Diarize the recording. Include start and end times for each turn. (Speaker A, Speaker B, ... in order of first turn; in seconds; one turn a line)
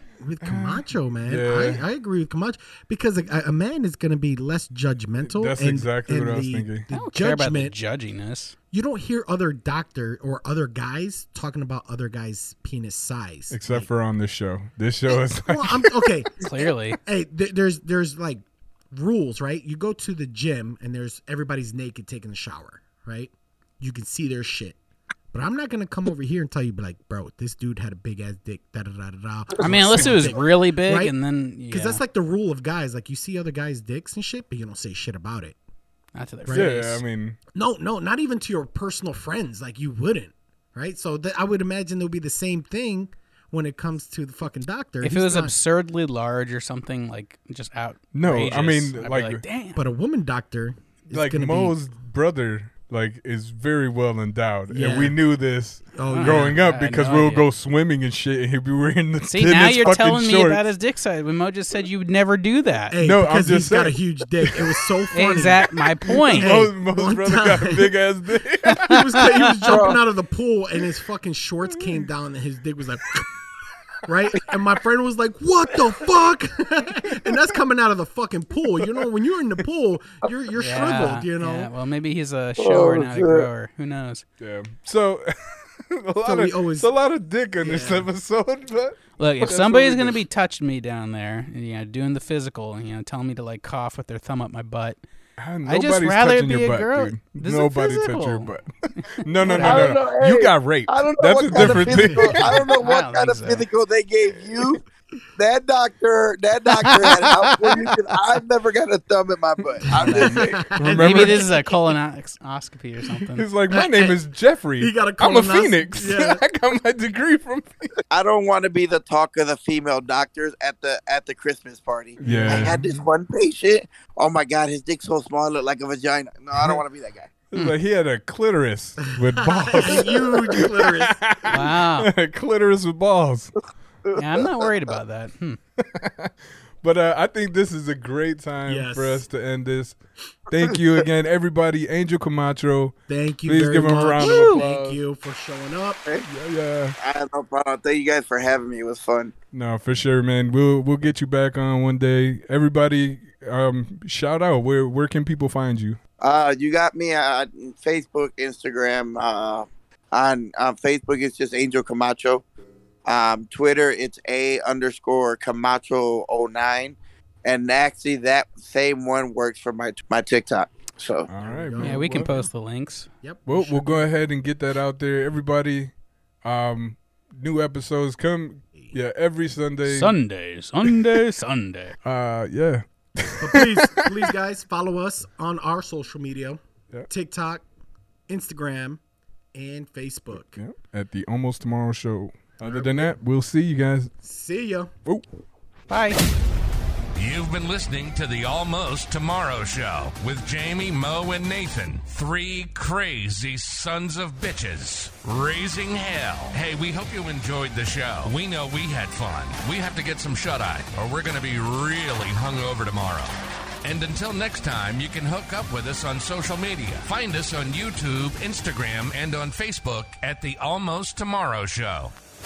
Speaker A: 0.2-7.7
Speaker B: 0.4-1.8
Speaker B: 5.2-6.9
Speaker C: 6.9-8.5
Speaker A: 8.7-13.9
Speaker B: 13.5-16.1
Speaker A: 15.1-24.8
Speaker C: 16.4-17.0
Speaker A: 25.3-31.1
Speaker C: 29.6-32.0
Speaker A: 31.7-35.6
Speaker C: 36.1-37.0
Speaker A: 36.4-36.7
Speaker B: 36.5-37.4
Speaker A: 37.5-45.5
Speaker C: 45.0-49.8
Speaker B: 48.1-49.4
Speaker A: 49.7-51.7
Speaker B: 51.1-60.6
Speaker A: 54.7-55.2
Speaker A: 55.9-56.6
Speaker C: 56.1-57.4
Speaker C: 59.3-63.0
Speaker A: 62.9-67.9
Speaker B: 63.0-64.7
Speaker C: 65.1-66.7
Speaker B: 66.3-69.0
Speaker A: 68.8-73.3
Speaker C: 68.9-69.7
Speaker D: 69.6-70.0
Speaker A: 74.0-81.7
Speaker C: 80.6-84.2
Speaker D: 82.6-83.5
Speaker B: 84.4-90.2
Speaker A: 86.2-86.9
Speaker A: 87.6-88.1
Speaker C: 89.2-95.0
Speaker B: 95.4-102.7
Speaker C: 95.7-98.5
Speaker C: 99.5-99.9
Speaker D: 99.6-104.8
Speaker A: 101.5-102.5
Speaker C: 102.8-103.7
Speaker D: 105.4-110.7
Speaker A: 109.8-111.6
Speaker C: 109.9-113.5
Speaker B: 110.0-111.5
Speaker B: 113.3-117.9
Speaker A: 113.7-114.2
Speaker A: 114.8-116.4
Speaker D: 118.1-127.3
Speaker B: 122.2-123.0
Speaker A: 122.2-122.8
Speaker B: 127.5-133.5
Speaker A: 129.4-131.5
Speaker D: 129.8-130.6
Speaker C: 131.5-132.1
Speaker D: 134.1-134.7
Speaker C: 134.1-135.6
Speaker B: 135.8-145.0
Speaker A: 138.7-139.2
Speaker A: 143.1-146.0
Speaker C: 144.2-144.6
Speaker B: 146.2-146.9
Speaker D: 147.0-149.3
Speaker B: 149.5-156.0
Speaker D: 156.2-162.4
Speaker D: 163.1-171.3
Speaker B: 171.3-172.3
Speaker A: 171.3-172.4
Speaker C: 171.8-173.1
Speaker A: 173.2-174.1
Speaker B: 173.4-175.9
Speaker B: 176.4-180.2
Speaker C: 179.8-182.0
Speaker B: 182.0-184.3
Speaker A: 183.4-187.6
Speaker A: 188.3-189.0
Speaker A: 189.5-190.6
Speaker B: 190.5-194.1
Speaker A: 192.6-193.2
Speaker A: 194.2-194.9
Speaker C: 195.9-196.2
Speaker E: 197.1-213.3
Speaker E: 213.8-222.1